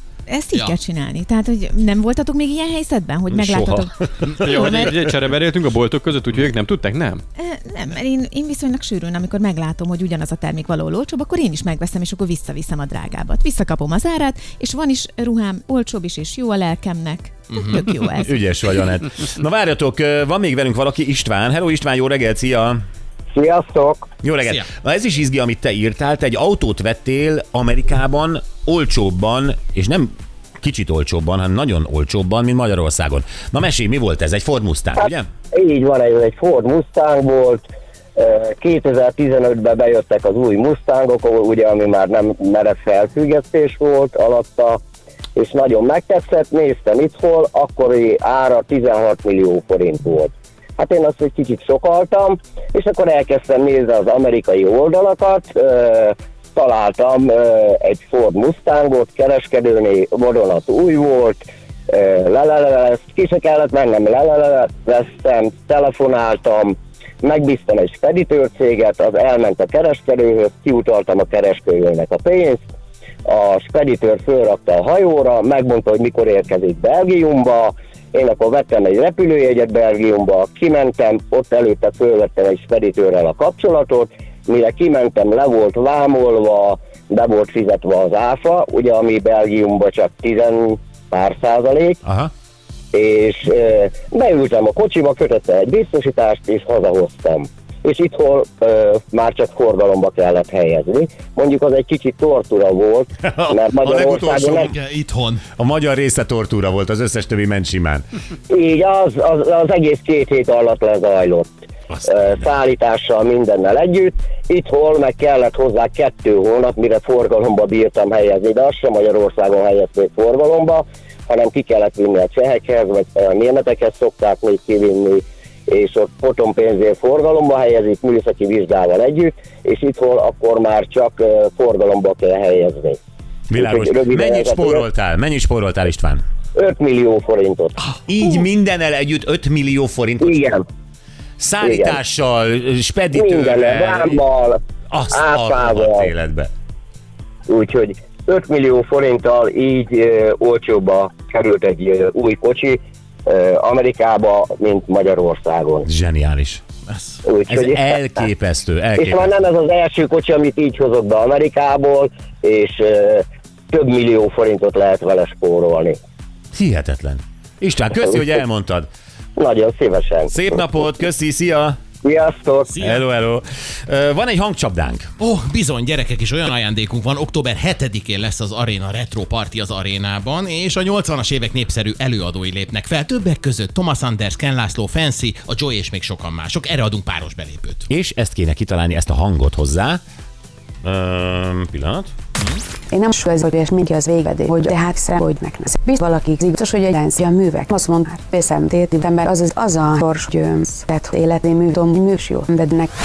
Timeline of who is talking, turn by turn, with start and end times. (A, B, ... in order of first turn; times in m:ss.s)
0:00.3-0:05.0 A
0:03.3-0:04.5 B
0:04.2-0:07.2 C
0:07.4-0:18.5 A
0:17.5-0:17.9 D
0:18.2-0:22.8 B
0:23.3-0:24.1 E
0:24.2-0:35.3 B
0:35.0-0:44.8 E
0:45.4-1:12.6 E
1:13.2-1:32.0 E
1:32.0-1:32.3 B
1:32.9-1:44.7 E
1:43.2-1:44.8 B
1:44.7-1:45.4 D
1:45.5-1:48.0 B
1:48.5-2:13.0 E
1:51.9-1:52.4 B
2:13.5-2:16.2 B
2:13.6-2:14.9 E
2:16.6-2:17.9 E
2:18.1-2:20.4 B
2:20.2-2:20.6 E
2:21.4-2:24.2 B
2:21.6-2:22.0 E
2:23.1-2:24.6 E
2:24.9-2:26.5 B
2:25.1-2:26.1 E
2:27.5-2:35.9 E
2:35.8-2:36.6 B
2:36.9-2:37.2 D
2:37.2-2:38.3 E
2:37.5-2:39.3 B
2:39.0-2:46.0 E
2:46.5-2:48.9 B
2:49.4-2:50.5 E
2:50.3-2:51.8 B
2:52.0-2:52.7 E
2:52.7-2:53.0 D
2:52.8-2:55.1 B
2:55.2-3:07.9 D
3:07.9-3:10.0 B
3:10.8-3:12.1 B
3:12.9-3:22.9 F